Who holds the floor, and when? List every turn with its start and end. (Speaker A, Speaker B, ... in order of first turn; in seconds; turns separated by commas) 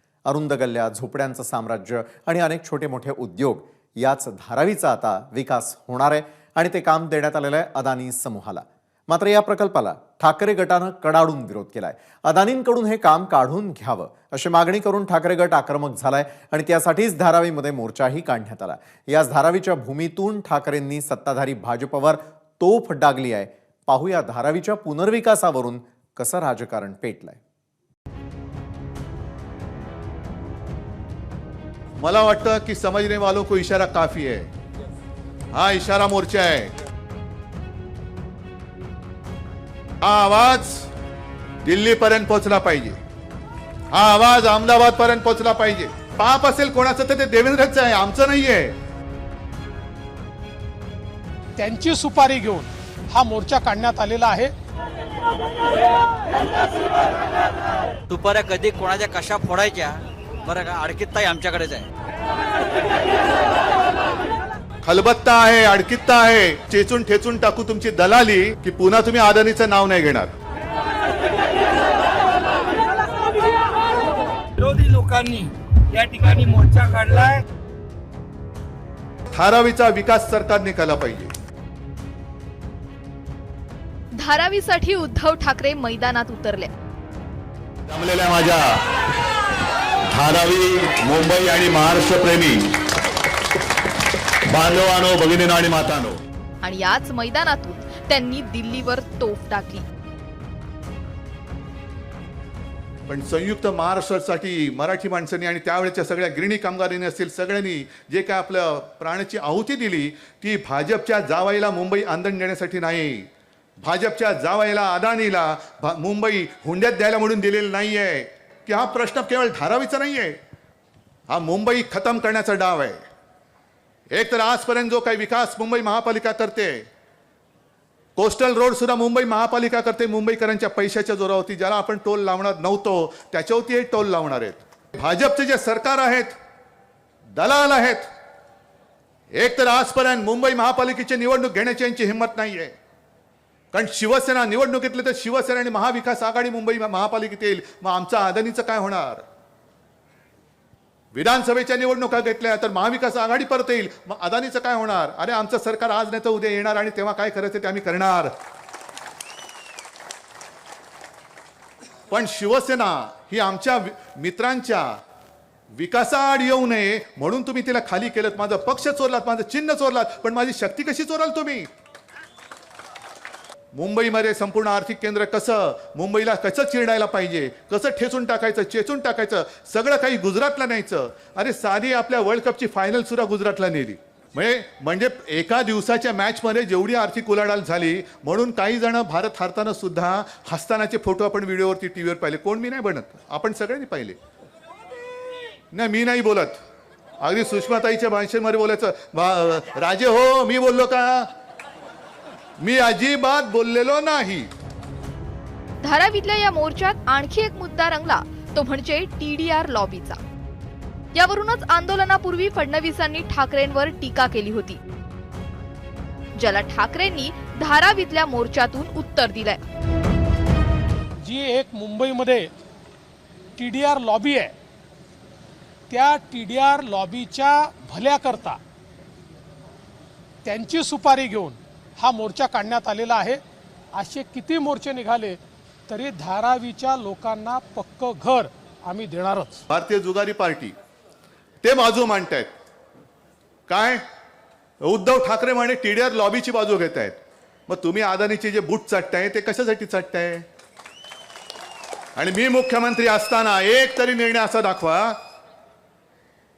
Speaker A: 0.3-27.4, Speaker B: 32.0-34.5, Speaker B: 35.5-36.7, Speaker B: 40.0-40.9, Speaker B: 41.6-43.0, Speaker B: 43.9-48.7, Speaker C: 51.6-54.5, Speaker D: 58.1-61.9, Speaker B: 64.8-70.3, Speaker E: 74.6-77.4, Speaker B: 79.3-81.3, Speaker F: 84.2-86.7, Speaker B: 87.9-88.7, Speaker B: 90.1-92.6, Speaker B: 94.5-96.2, Speaker F: 96.6-99.8, Speaker B: 103.1-113.3, Speaker B: 113.8-120.4, Speaker B: 121.3-123.0, Speaker B: 124.1-126.8, Speaker B: 128.2-136.3, Speaker B: 137.3-138.1, Speaker B: 139.3-142.7, Speaker B: 143.7-149.2, Speaker B: 151.1-158.3, Speaker B: 162.1-164.9, Speaker B: 165.7-171.7, Speaker B: 173.7-194.2, Speaker B: 195.7-196.6, Speaker B: 197.2-201.3, Speaker B: 202.6-204.5, Speaker F: 205.8-210.2, Speaker F: 211.1-214.8, Speaker F: 216.4-219.6, Speaker C: 221.2-222.5, Speaker C: 223.6-224.5, Speaker C: 225.9-228.6, Speaker C: 230.4-233.4, Speaker C: 233.9-239.6, Speaker B: 239.7-240.7, Speaker B: 241.6-242.5, Speaker B: 243.7-244.0, Speaker B: 244.8-247.2, Speaker B: 247.7-250.4, Speaker B: 252.2-255.2